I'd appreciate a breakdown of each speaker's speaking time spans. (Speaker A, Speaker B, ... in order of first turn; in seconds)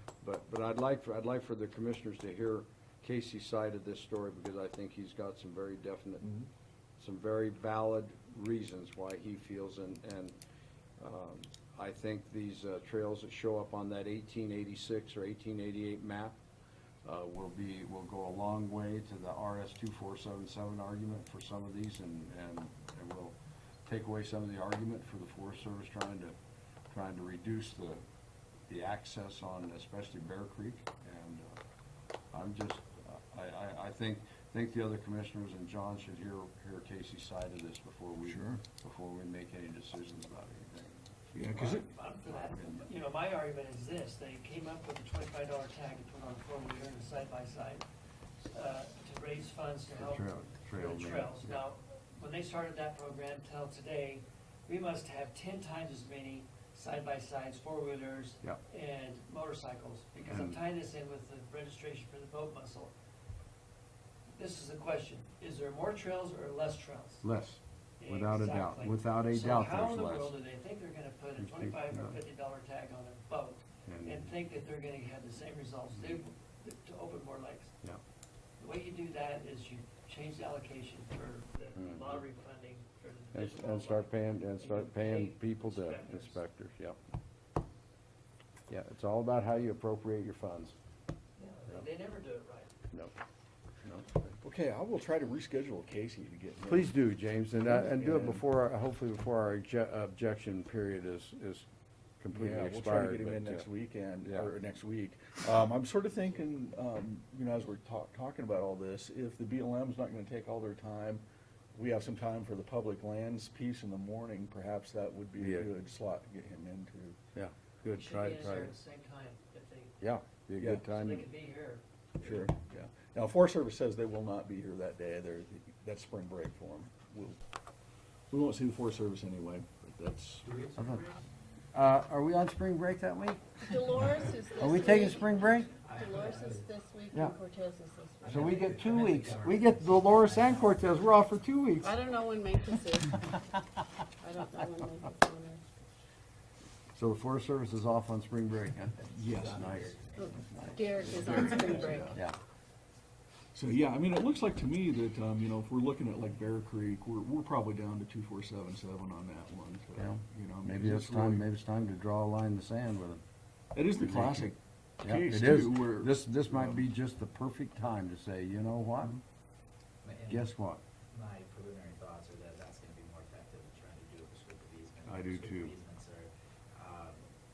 Speaker A: 0.2-6.3, 7.0-10.3, 11.0-16.4, 17.0-26.3, 26.9-28.0, 28.7-31.6, 32.3-41.0, 42.3-42.9, 50.0-51.6, 60.2-60.6, 67.2-70.4, 71.4-72.2, 73.9-74.3, 81.8-82.2, 83.3-87.0, 88.7-90.8, 93.8-94.4, 96.6-101.7, 102.2-103.7, 104.2-104.5, 115.4-115.7, 117.3-118.7, 120.0-121.3, 130.7-131.2, 131.7-135.7, 138.3-142.0, 146.9-152.4, 160.0-163.2, 164.0-169.2, 170.3-170.8, 175.1-175.8
Speaker B: 6.2-6.5, 38.2-38.6, 41.3-41.9, 94.4-96.9, 97.6-98.4, 102.3-111.2, 111.8-117.2, 120.6-120.8, 122.2-127.4, 128.3-130.5, 149.1-149.7, 151.0-152.2, 153.6-161.5, 163.7-166.8
Speaker C: 41.5-47.9, 48.4-62.9, 64.3-67.2, 68.0-77.7, 78.6-86.4, 91.4-92.7, 118.0-120.0, 120.8-121.8
Speaker D: 130.4-131.1, 135.8-136.7, 138.2-141.0, 149.2-151.0, 170.0-170.6, 171.1-177.3
Speaker E: 133.7-138.9, 141.8-143.4, 144.2-145.6, 150.2-152.2